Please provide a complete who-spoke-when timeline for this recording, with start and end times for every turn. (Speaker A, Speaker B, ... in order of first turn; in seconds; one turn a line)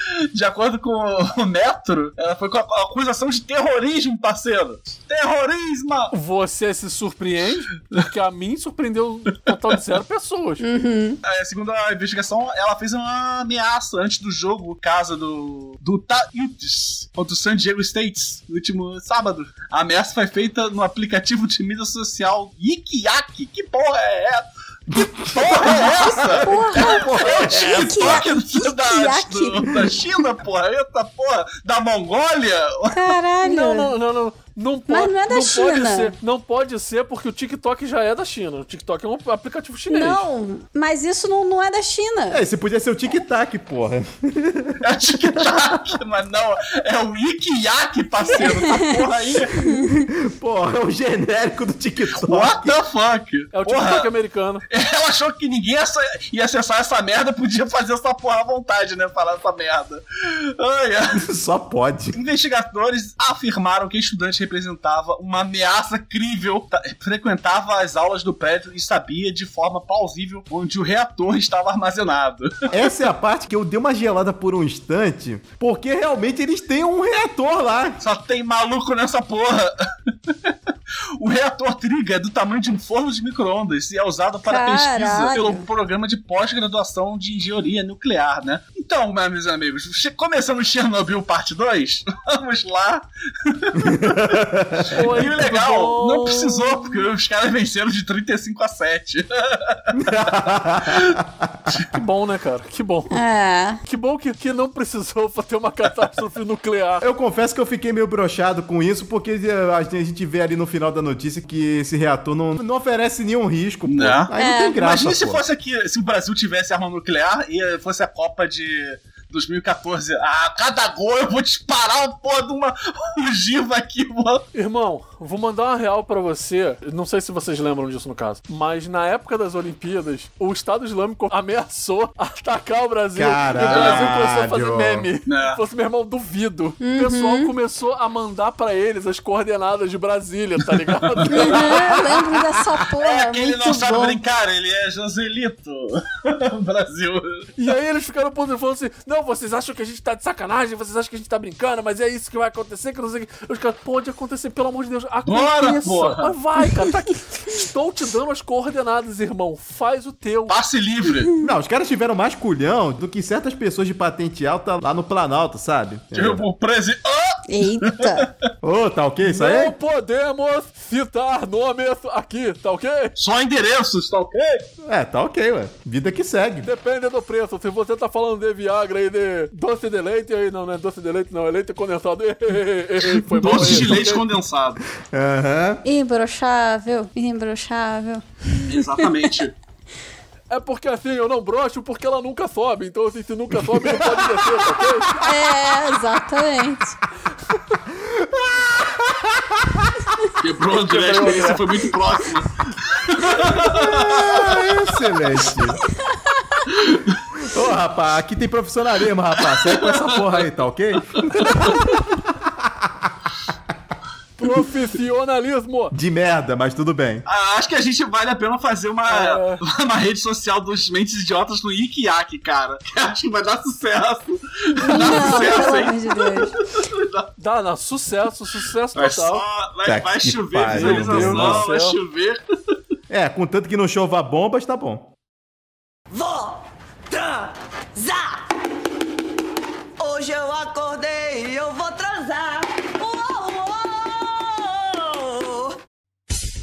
Speaker A: 0.3-6.1
Speaker B: 6.1-10.6
Speaker C: 10.6-11.2
Speaker A: 11.2-24.4
Speaker D: 24.9-28.3
Speaker A: 24.9-33.1
Speaker C: 25.7-29.8
Speaker C: 32.9-33.9
Speaker B: 33.4-40.2
Speaker C: 34.9-36.1
Speaker C: 39.9-42.4
Speaker D: 42.3-45.8
Speaker A: 44.8-49.6
Speaker C: 48.3-49.0
Speaker C: 49.5-50.0
Speaker D: 49.8-52.8
Speaker A: 52.2-54.1
Speaker B: 53.5-54.6
Speaker A: 54.7-61.2
Speaker D: 61.2-62.2
Speaker A: 62.1-72.8
Speaker D: 72.7-78.0
Speaker A: 78.0-79.7
Speaker A: 80.3-80.5
Speaker A: 81.2-100.3
Speaker C: 84.4-85.7
Speaker D: 93.7-95.1
Speaker B: 94.9-97.0
Speaker D: 99.9-101.8
Speaker A: 100.9-101.2
Speaker B: 101.9-103.2
Speaker C: 103.1-103.8
Speaker B: 103.8-107.0
Speaker D: 107.0-115.4
Speaker A: 113.9-124.5
Speaker C: 114.4-114.8
Speaker B: 124.5-141.7
Speaker D: 133.1-135.1
Speaker A: 133.6-134.2
Speaker A: 135.3-135.6
Speaker C: 136.8-137.5
Speaker C: 141.2-144.2
Speaker D: 141.5-142.7
Speaker A: 143.0-147.4
Speaker B: 147.6-160.6
Speaker A: 155.2-156.3
Speaker A: 160.5-161.3
Speaker D: 161.4-166.5
Speaker A: 166.1-168.3
Speaker C: 167.5-168.3
Speaker D: 168.6-169.7
Speaker B: 169.2-173.1
Speaker A: 173.2-174.7
Speaker D: 174.8-176.7
Speaker B: 176.6-184.2
Speaker A: 183.3-184.8
Speaker D: 183.4-184.0
Speaker D: 185.0-185.8
Speaker C: 185.8-189.2
Speaker A: 188.7-189.5
Speaker B: 190.5-195.3
Speaker D: 193.5-194.8
Speaker C: 195.2-197.0
Speaker B: 197.5-197.8
Speaker D: 197.9-200.0
Speaker A: 200.4-204.6
Speaker B: 200.7-201.7
Speaker D: 204.1-205.8
Speaker C: 206.1-206.6
Speaker A: 206.7-207.2
Speaker D: 207.4-213.1
Speaker A: 209.4-210.3
Speaker B: 214.4-215.9
Speaker D: 215.9-217.2
Speaker A: 217.2-227.3
Speaker B: 219.1-219.6
Speaker C: 224.8-226.5
Speaker B: 224.9-225.7
Speaker B: 227.4-229.4
Speaker A: 228.9-232.4
Speaker D: 229.8-231.6
Speaker B: 230.7-232.0
Speaker D: 233.1-235.1
Speaker E: 236.1-238.4
Speaker E: 240.0-245.8